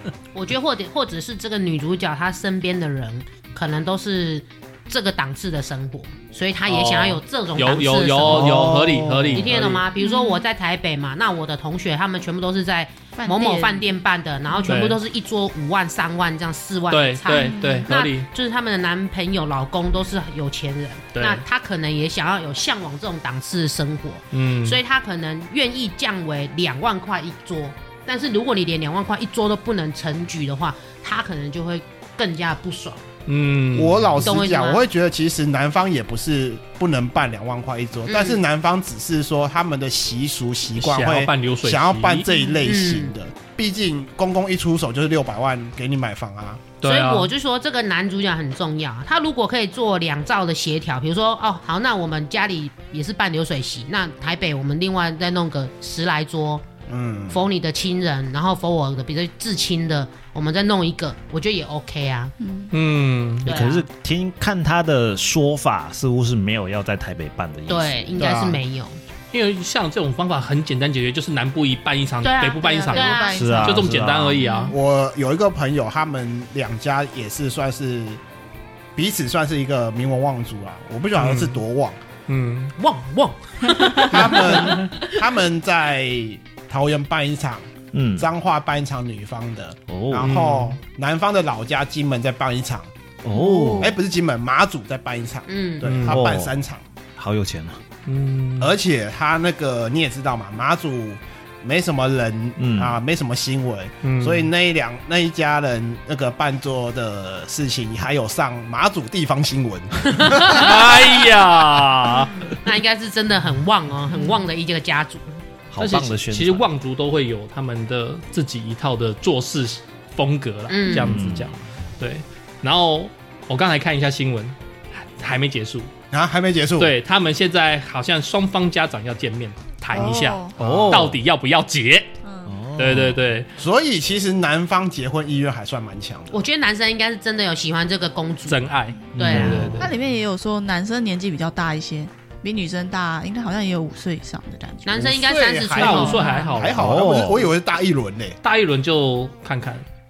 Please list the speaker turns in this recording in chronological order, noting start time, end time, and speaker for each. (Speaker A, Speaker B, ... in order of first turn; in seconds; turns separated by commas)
Speaker A: 0.3-8.6, Speaker B: 6.7-9.8, Speaker C: 8.3-9.7, Speaker A: 9.3-33.1, Speaker D: 10.0-10.4, Speaker D: 13.2-13.9, Speaker B: 14.7-15.0, Speaker B: 16.9-18.3, Speaker D: 17.3-17.9, Speaker B: 21.1-21.4, Speaker B: 24.3-24.8, Speaker B: 33.3-34.2, Speaker E: 33.7-46.7, Speaker A: 34.2-34.9, Speaker A: 38.1-38.4, Speaker B: 40.8-42.3, Speaker A: 42.6-43.1, Speaker B: 46.8-47.3, Speaker A: 46.8-56.7, Speaker E: 56.9-57.4, Speaker A: 57.3-62.3, Speaker D: 62.4-62.7, Speaker B: 62.7-63.6, Speaker C: 63.4-68.2, Speaker A: 63.5-63.9, Speaker A: 67.7-69.0, Speaker E: 68.2-68.6, Speaker B: 69.3-74.8, Speaker A: 72.2-73.4, Speaker D: 72.8-73.9, Speaker C: 73.3-74.4, Speaker D: 74.4-74.8, Speaker E: 74.7-78.2, Speaker E: 79.0-82.0, Speaker B: 81.2-81.6, Speaker B: 82.3-82.7, Speaker A: 82.8-85.0, Speaker E: 84.0-92.9, Speaker C: 87.9-88.3, Speaker C: 89.9-90.3, Speaker B: 90.2-90.8, Speaker C: 93.2-93.9, Speaker D: 93.3-93.9, Speaker E: 93.8-96.8, Speaker A: 95.5-96.1, Speaker B: 95.8-96.2, Speaker C: 96.1-96.5, Speaker C: 97.2-97.8, Speaker B: 98.1-98.7, Speaker E: 98.6-110.7, Speaker C: 102.6-103.0, Speaker B: 104.0-104.5, Speaker A: 110.2-110.7, Speaker B: 110.5-112.6, Speaker A: 112.5-115.3, Speaker C: 115.7-116.7, Speaker B: 115.8-125.9, Speaker A: 120.7-121.2, Speaker C: 121.0-121.5, Speaker E: 126.1-127.0, Speaker B: 126.8-132.1, Speaker D: 129.9-130.6, Speaker C: 130.6-131.2, Speaker E: 130.6-131.2, Speaker D: 132.2-132.5, Speaker C: 132.5-133.2, Speaker B: 132.8-133.5, Speaker E: 133.6-136.5, Speaker A: 136.3-139.7, Speaker B: 138.5-139.9, Speaker C: 139.1-139.9, Speaker D: 139.3-145.2, Speaker A: 144.8-146.4, Speaker E: 145.0-148.4, Speaker B: 145.8-147.0, Speaker D: 145.9-146.7, Speaker C: 146.7-147.5, Speaker B: 148.4-149.8